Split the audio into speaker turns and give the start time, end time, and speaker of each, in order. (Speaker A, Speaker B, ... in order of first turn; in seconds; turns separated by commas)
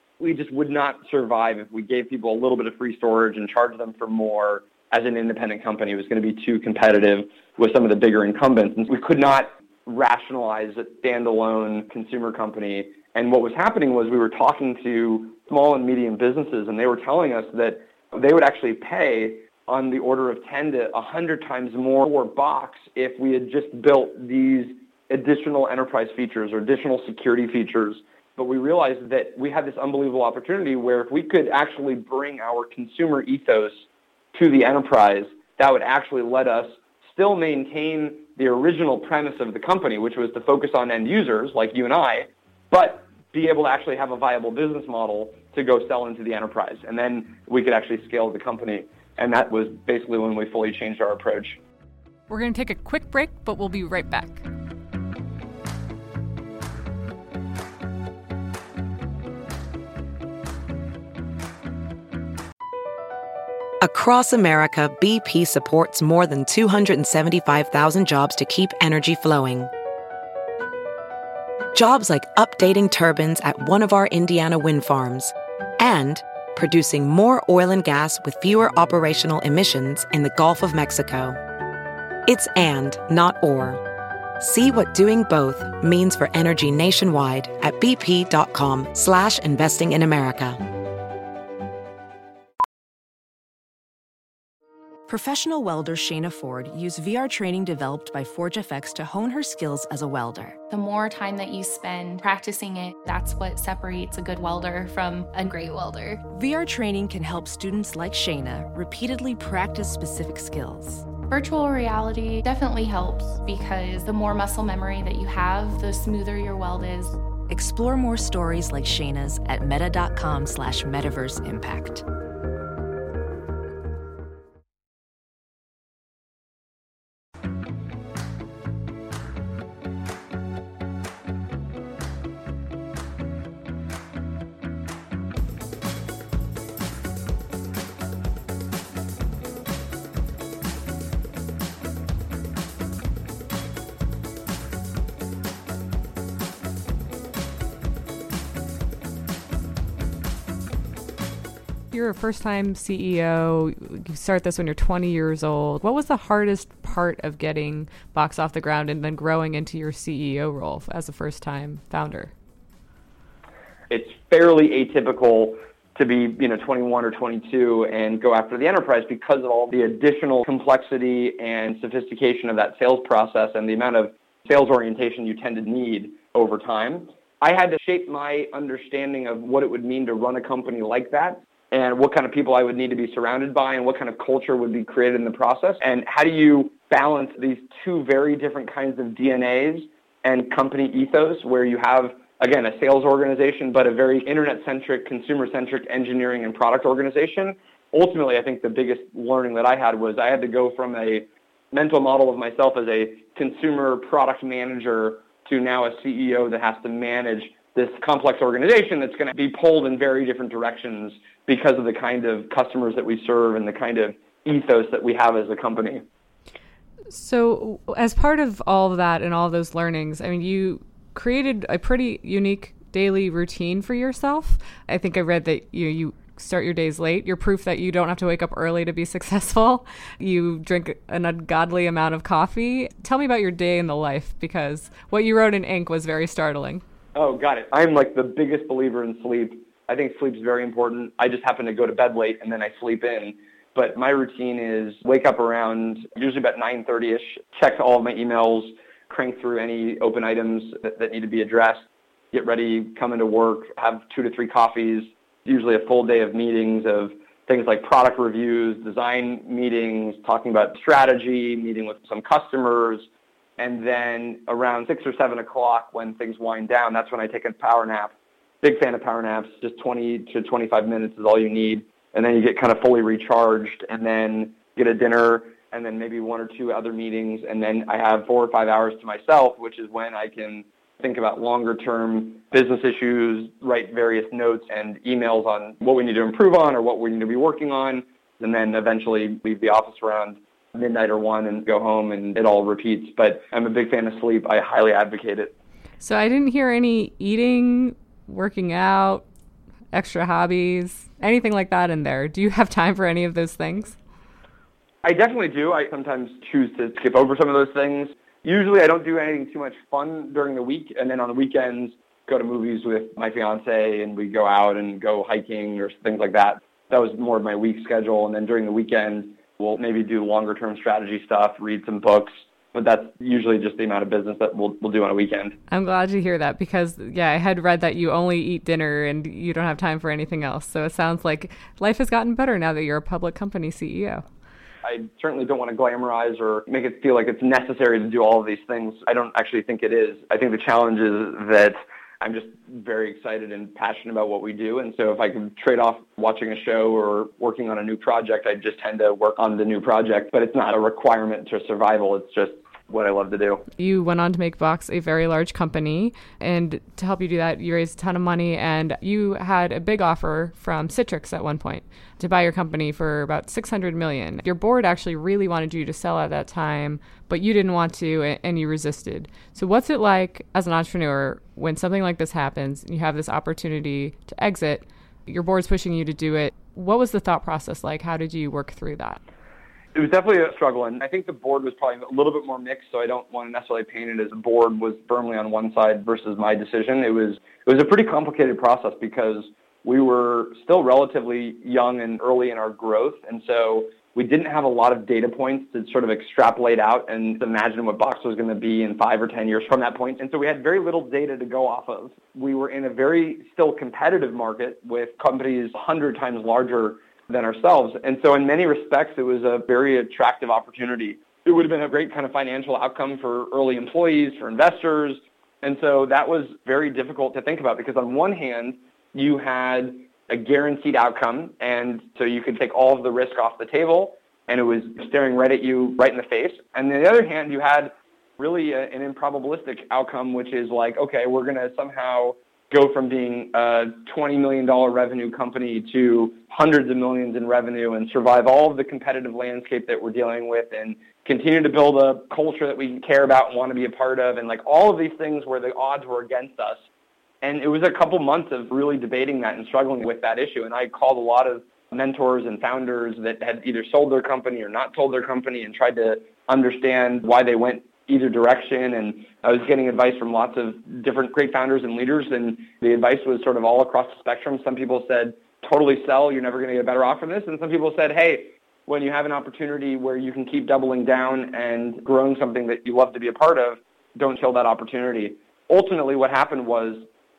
Speaker A: 0.2-51.6, Speaker B: 52.3-54.4, Speaker C: 63.8-69.7, Speaker C: 71.7-81.4, Speaker C: 82.2-83.8, Speaker C: 84.4-90.6, Speaker D: 95.1-100.6, Speaker E: 100.7-106.2, Speaker D: 106.3-111.1, Speaker E: 111.3-117.2, Speaker D: 117.5-122.0, Speaker B: 151.9-162.3, Speaker A: 163.9-216.0, Speaker B: 217.1-236.8, Speaker A: 237.1-263.1, Speaker A: 263.6-295.5, Speaker B: 296.0-299.2, Speaker B: 299.9-304.0, Speaker A: 305.0-325.6, Speaker B: 325.7-334.2, Speaker A: 334.8-353.6, Speaker B: 353.8-379.2, Speaker A: 379.9-446.8, Speaker A: 447.4-477.1